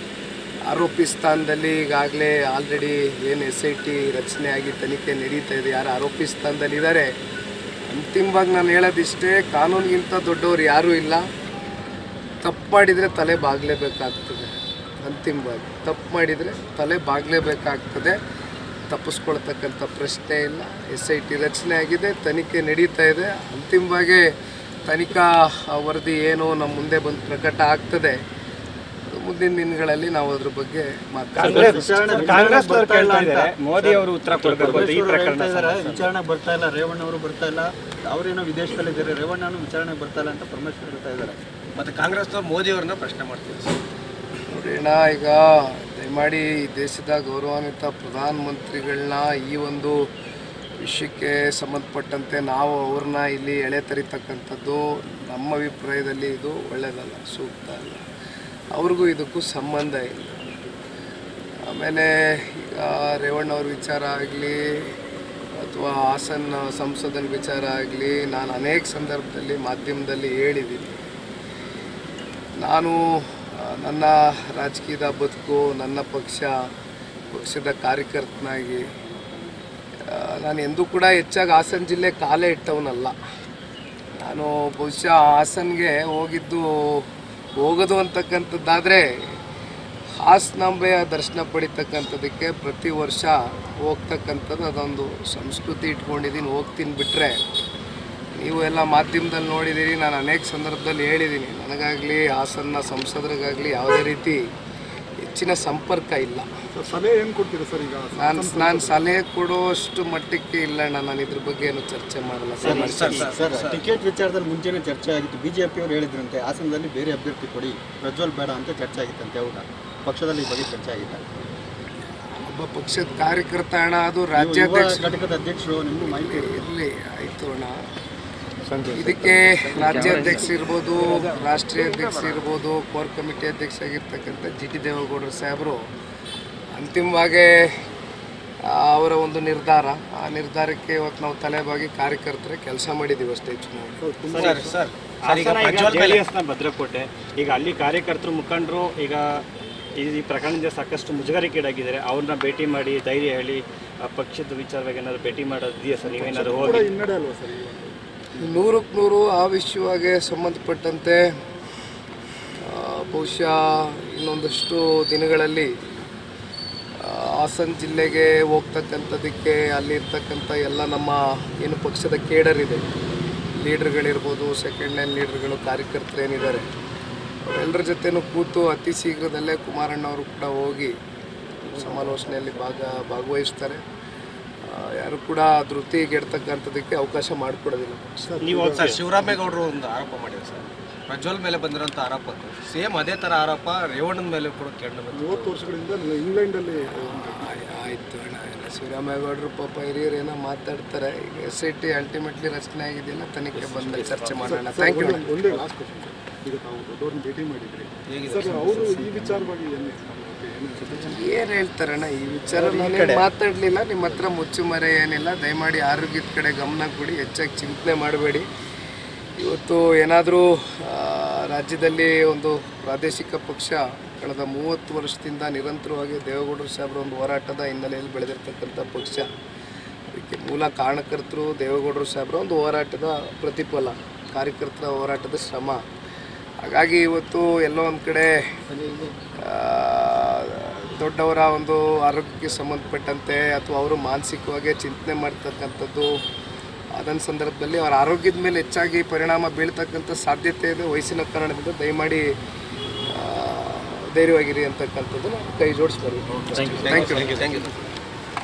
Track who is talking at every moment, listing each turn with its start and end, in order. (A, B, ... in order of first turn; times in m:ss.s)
0:00.7-0:07.1 A
0:07.9-0:11.3 A
0:12.4-0:18.2 A
0:18.9-0:24.3 A
0:24.8-0:28.2 A
0:29.1-0:32.3 A
0:31.3-0:36.1 B
0:31.4-0:41.4 C
0:41.8-0:43.8 D
0:44.5-0:50.1 A
0:50.8-0:58.0 A
0:58.7-1:00.6 A
1:01.6-1:04.9 A
1:05.6-1:10.9 A
1:12.6-1:16.6 A
1:17.3-1:18.9 A
1:20.0-1:23.1 A
1:24.2-1:29.4 A
1:30.2-1:37.4 A
1:38.4-1:44.4 A
1:45.2-1:46.5 A
1:46.7-1:49.0 E
1:48.2-1:53.3 A
1:52.6-1:53.3 B
1:52.6-2:01.2 C
1:52.8-1:53.8 D
2:02.4-2:05.1 A
2:04.3-2:06.6 C
2:06.0-2:07.9 A
2:08.7-2:10.4 C
2:08.9-2:15.9 A
2:09.8-2:10.3 B
2:16.7-2:17.8 A
2:18.6-2:24.0 A
2:24.0-2:24.8 C
2:24.3-2:24.6 B
2:24.3-2:26.2 D
2:25.2-2:29.4 B
2:30.0-2:36.9 B
2:36.0-2:38.0 E
2:38.4-2:41.3 A
2:42.6-2:45.7 A
2:47.0-2:52.8 A
2:53.6-2:56.7 A
2:57.4-3:01.0 A
3:01.7-3:03.8 A
3:04.6-3:08.3 A
3:08.2-3:08.9 E
3:08.4-3:09.0 B
3:08.7-3:15.6 D
3:15.1-3:17.8 E
3:16.9-3:25.3 A
3:23.5-3:24.5 B
3:24.4-3:31.2 E
3:28.1-3:29.2 D
3:31.0-3:38.5 A
3:32.5-3:33.3 C
3:39.4-3:49.3 A
3:50.1-3:55.8 A
3:56.6-3:58.6 A
3:59.4-4:06.2 A
4:06.9-4:12.3 A
4:13.0-4:16.2 A
4:16.5-4:17.7 D
4:16.8-4:17.4 A